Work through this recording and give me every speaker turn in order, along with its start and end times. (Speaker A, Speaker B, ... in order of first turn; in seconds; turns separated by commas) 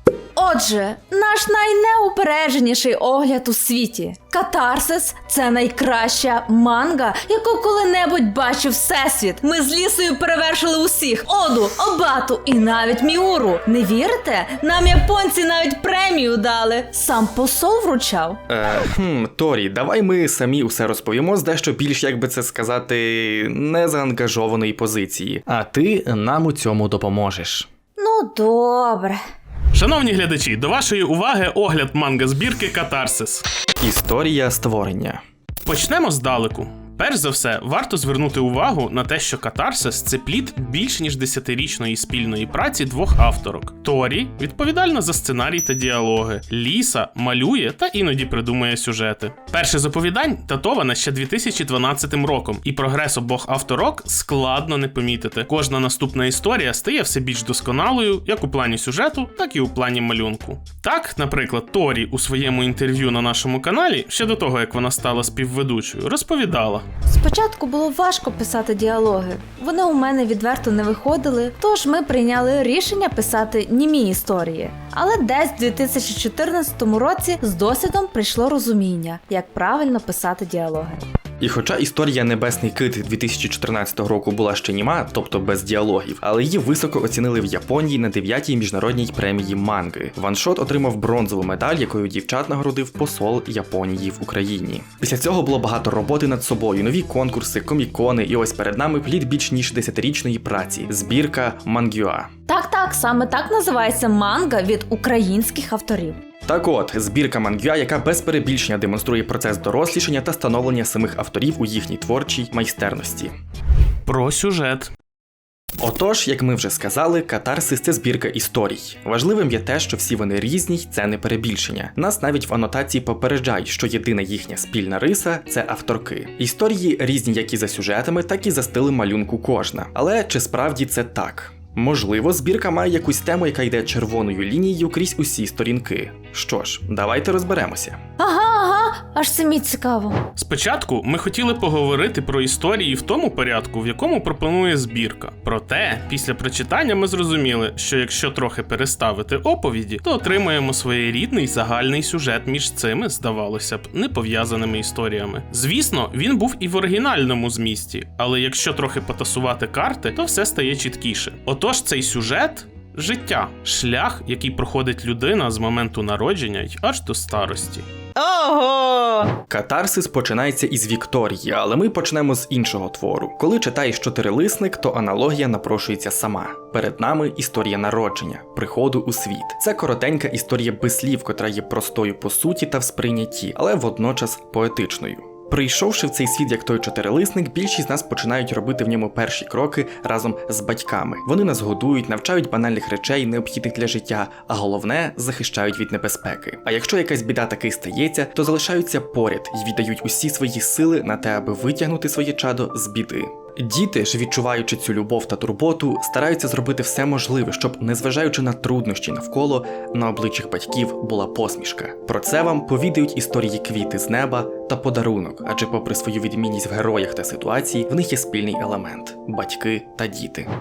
Speaker A: 0.3-18.4, Speaker B: 18.5-27.7, Speaker A: 28.0-29.2, Speaker C: 29.7-33.4, Speaker B: 33.8-35.2, Speaker C: 35.6-66.8, Speaker A: 67.0-81.0, Speaker B: 81.4-102.3, Speaker A: 102.5-106.2, Speaker B: 106.5-113.3, Speaker C: 114.0-114.9, Speaker B: 115.8-138.0, Speaker A: 138.2-140.2, Speaker C: 140.3-167.8, Speaker A: 168.2-169.3, Speaker B: 169.5-220.5